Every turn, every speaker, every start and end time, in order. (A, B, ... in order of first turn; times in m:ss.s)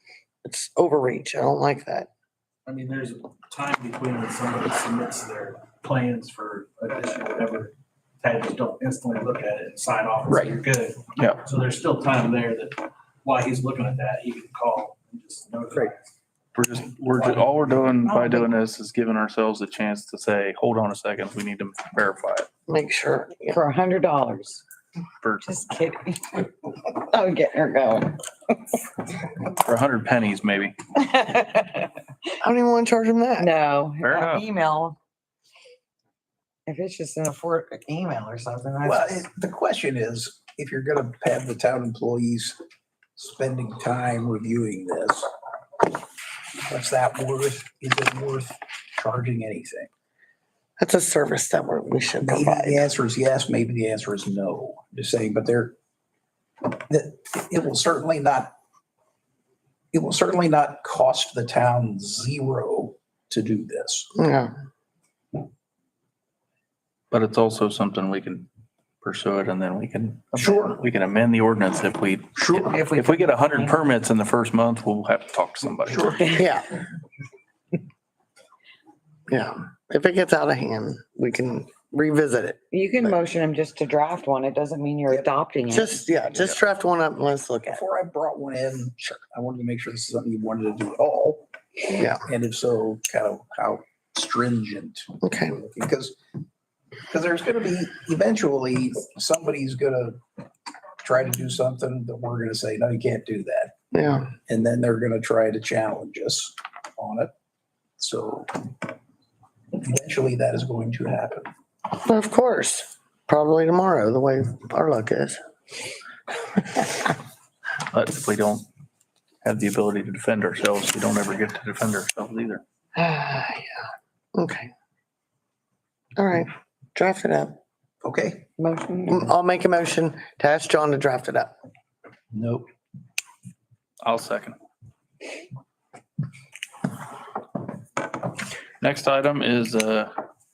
0:00.4-0:02.1 A
0:02.6-0:16.0 B
0:10.3-0:10.6 C
0:11.2-0:11.4 D
0:16.5-0:22.5 D
0:18.0-0:18.4 E
0:22.7-0:23.6 A
0:23.5-0:24.6 E
0:25.2-0:25.5 D
0:25.4-0:28.6 E
0:29.6-0:30.8 D
0:31.0-0:31.9 E
0:32.4-0:33.5 A
0:33.4-0:35.0 E
0:34.0-0:34.4 D
0:36.7-0:39.2 E
0:38.8-0:42.6 C
0:43.2-0:45.3 C
0:46.7-0:49.9 C
0:50.8-0:52.9 A
0:52.2-0:55.7 C
0:56.7-0:58.5 C
0:59.9-1:04.1 C
1:04.2-1:04.5 A
1:07.1-1:08.5 D
1:09.0-1:16.2 D
1:10.4-1:10.8 C
1:12.4-1:12.8 C
1:12.5-1:13.8 E
1:15.9-1:16.2 C
1:16.1-1:16.5 E
1:16.3-1:16.7 A
1:19.3-1:23.2 A
1:22.7-1:26.0 E
1:25.7-1:27.8 A
1:26.2-1:26.6 C
1:27.7-1:31.5 C
1:31.9-1:32.2 A
1:32.2-1:36.2 C
1:35.2-1:35.6 A
1:37.1-1:40.2 C
1:41.0-1:43.7 C
1:43.9-1:44.3 A
1:44.4-1:47.3 C
1:48.0-1:48.8 C
1:49.8-1:51.5 C
1:52.0-1:55.4 A
1:57.9-1:58.6 D
1:59.4-2:02.6 D
2:03.0-2:03.8 A
2:04.3-2:04.7 A
2:06.2-2:07.6 A
2:08.0-2:08.5 C
2:08.6-2:09.3 E
2:09.1-2:11.5 A
2:12.3-2:12.7 C
2:14.0-2:14.6 D
2:18.8-2:20.1 D